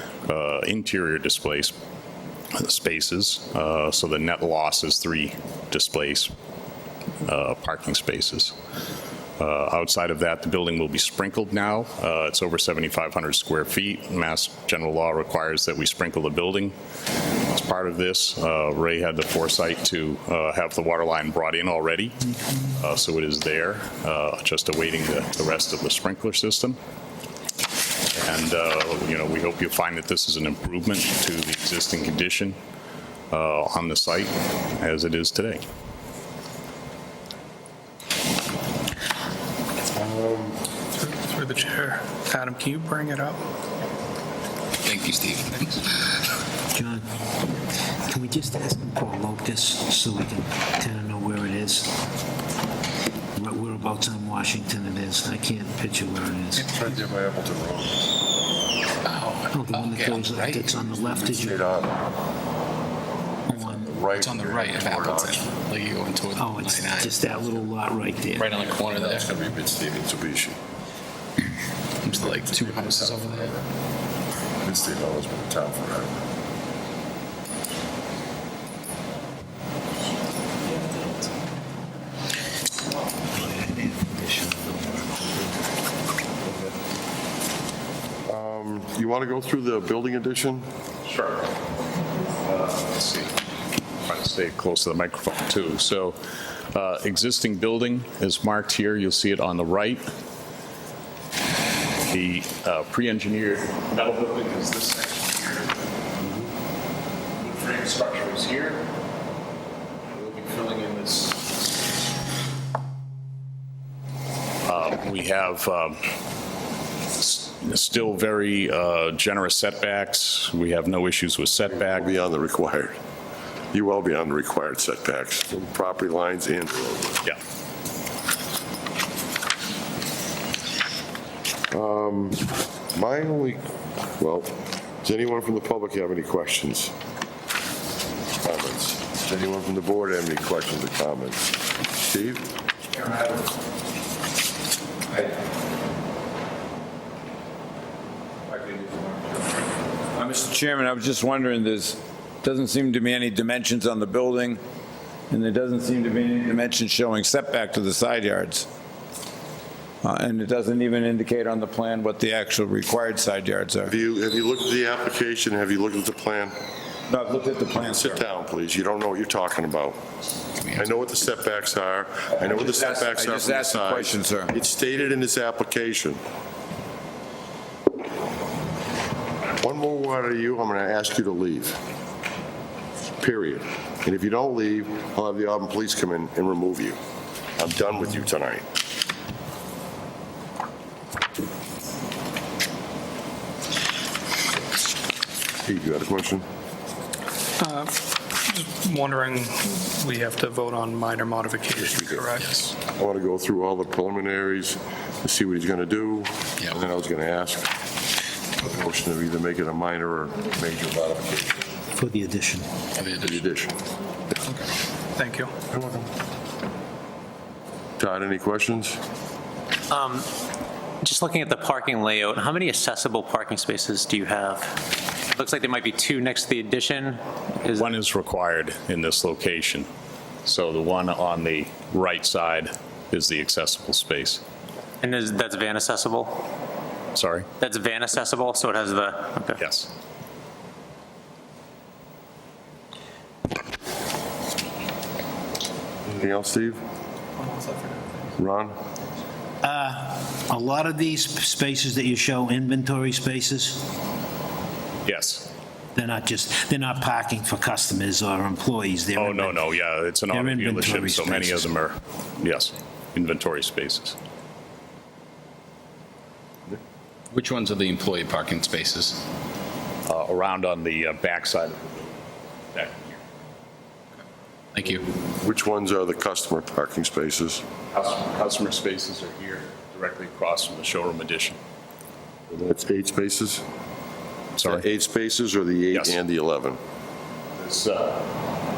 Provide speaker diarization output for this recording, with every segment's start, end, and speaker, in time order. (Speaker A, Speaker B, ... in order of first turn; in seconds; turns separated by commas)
Speaker A: 0.3-1.7, Speaker A: 2.5-6.3, Speaker A: 7.2-8.6, Speaker A: 9.4-16.8, Speaker A: 17.5-26.8, Speaker A: 28.1-32.6, Speaker A: 33.3-35.6, Speaker B: 39.9-40.6, Speaker C: 41.0-43.4, Speaker D: 46.7-47.0, Speaker D: 48.0-51.9, Speaker D: 53.4-56.7, Speaker B: 56.7-58.0, Speaker E: 59.1-60.7, Speaker D: 59.5-61.6, Speaker B: 60.7-62.0, Speaker D: 63.5-63.9, Speaker B: 63.6-65.5, Speaker E: 64.2-67.4, Speaker D: 66.4-68.6, Speaker E: 68.4-69.1, Speaker B: 68.7-70.6, Speaker E: 72.0-73.5, Speaker B: 72.2-73.7, Speaker B: 74.6-76.2, Speaker D: 83.3-85.5, Speaker B: 88.3-90.7, Speaker A: 91.0-91.5, Speaker A: 92.4-93.3, Speaker A: 94.0-96.2, Speaker A: 96.7-100.0, Speaker A: 102.1-106.5, Speaker A: 107.4-108.8, Speaker A: 110.1-111.7, Speaker A: 114.7-116.0, Speaker A: 117.2-122.1, Speaker B: 121.7-123.0, Speaker B: 123.7-127.2, Speaker B: 131.7-133.7, Speaker B: 134.2-136.9, Speaker B: 138.4-142.5, Speaker F: 148.5-149.4, Speaker F: 150.2-154.6, Speaker F: 155.3-158.7, Speaker F: 160.0-164.0, Speaker B: 163.9-166.6, Speaker F: 167.1-168.2, Speaker B: 167.8-170.0, Speaker E: 170.6-170.9, Speaker B: 170.7-176.2, Speaker F: 172.4-174.5, Speaker B: 179.6-181.8, Speaker B: 183.2-187.0, Speaker B: 187.6-188.7, Speaker B: 195.6-196.5, Speaker C: 197.6-197.9, Speaker C: 198.5-202.7, Speaker B: 201.8-207.7, Speaker B: 208.6-211.8, Speaker D: 211.9-212.7, Speaker B: 213.1-213.8, Speaker C: 215.2-215.5, Speaker B: 215.7-216.1, Speaker B: 218.0-219.0, Speaker G: 219.9-220.3, Speaker G: 221.0-227.9, Speaker A: 227.8-229.9, Speaker A: 230.4-234.4, Speaker G: 235.0-236.5, Speaker A: 237.2-237.5, Speaker G: 237.6-239.6, Speaker A: 239.6-239.9, Speaker B: 246.1-246.8, Speaker B: 248.4-248.8, Speaker D: 249.6-253.9, Speaker A: 255.1-255.5, Speaker D: 255.9-261.8, Speaker A: 259.2-264.2, Speaker E: 267.4-269.2, Speaker A: 270.1-272.2, Speaker A: 272.7-273.2, Speaker B: 275.2-277.6, Speaker A: 277.9-281.6, Speaker B: 282.5-283.6, Speaker A: 284.6-284.9, Speaker B: 284.6-286.8, Speaker A: 285.9-286.2, Speaker A: 287.6-288.3